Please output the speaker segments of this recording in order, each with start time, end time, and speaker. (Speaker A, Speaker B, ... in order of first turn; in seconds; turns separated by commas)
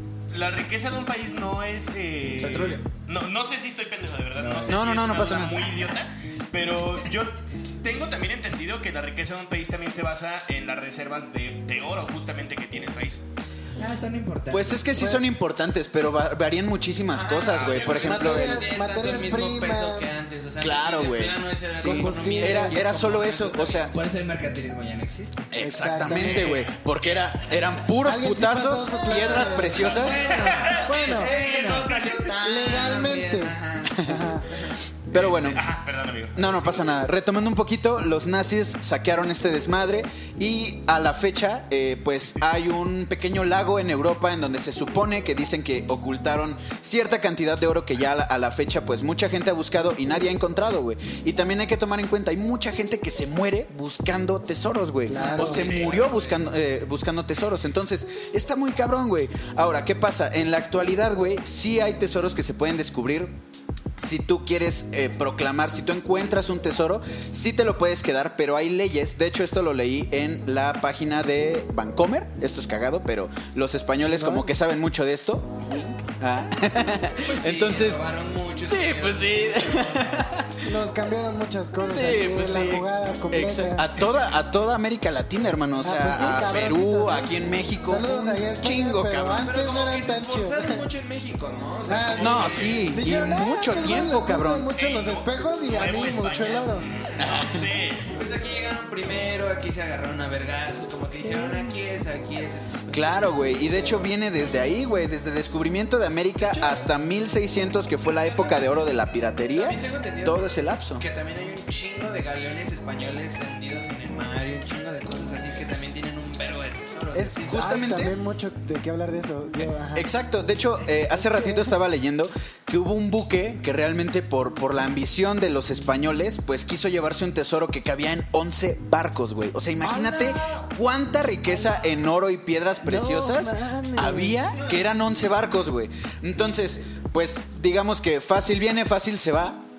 Speaker A: 0.3-13.2, Speaker B: 2.4-2.8, Speaker C: 4.3-4.8, Speaker D: 4.7-5.7, Speaker C: 13.8-14.9, Speaker D: 14.5-18.7, Speaker E: 14.9-15.2, Speaker B: 17.1-23.9, Speaker E: 18.0-20.1, Speaker D: 20.6-23.9, Speaker E: 21.8-22.8, Speaker C: 23.9-25.5, Speaker D: 25.5-30.4, Speaker E: 25.6-26.7, Speaker E: 28.0-31.3, Speaker B: 29.1-34.7, Speaker A: 30.0-30.9, Speaker C: 30.6-32.0, Speaker E: 31.9-34.6, Speaker D: 35.1-35.6, Speaker A: 35.1-36.9, Speaker D: 36.3-63.3, Speaker E: 55.1-55.8, Speaker B: 55.1-56.6, Speaker A: 55.5-56.0, Speaker D: 64.0-78.0, Speaker E: 74.0-74.5, Speaker B: 77.2-80.2, Speaker D: 78.7-80.8, Speaker E: 80.6-83.9, Speaker D: 81.9-89.5, Speaker E: 85.8-90.8, Speaker B: 89.3-93.0, Speaker E: 91.8-96.9, Speaker D: 92.2-94.7, Speaker A: 94.7-98.1, Speaker B: 97.2-97.4, Speaker D: 97.2-97.6, Speaker B: 98.1-104.0, Speaker C: 101.1-101.7, Speaker D: 102.9-111.0, Speaker B: 106.4-106.9, Speaker B: 108.0-108.9, Speaker B: 109.5-117.7, Speaker E: 117.1-120.1, Speaker D: 117.5-118.1, Speaker D: 119.9-139.6, Speaker E: 121.0-121.7, Speaker E: 129.8-130.2, Speaker B: 130.0-130.7, Speaker E: 132.8-134.5, Speaker B: 134.6-134.9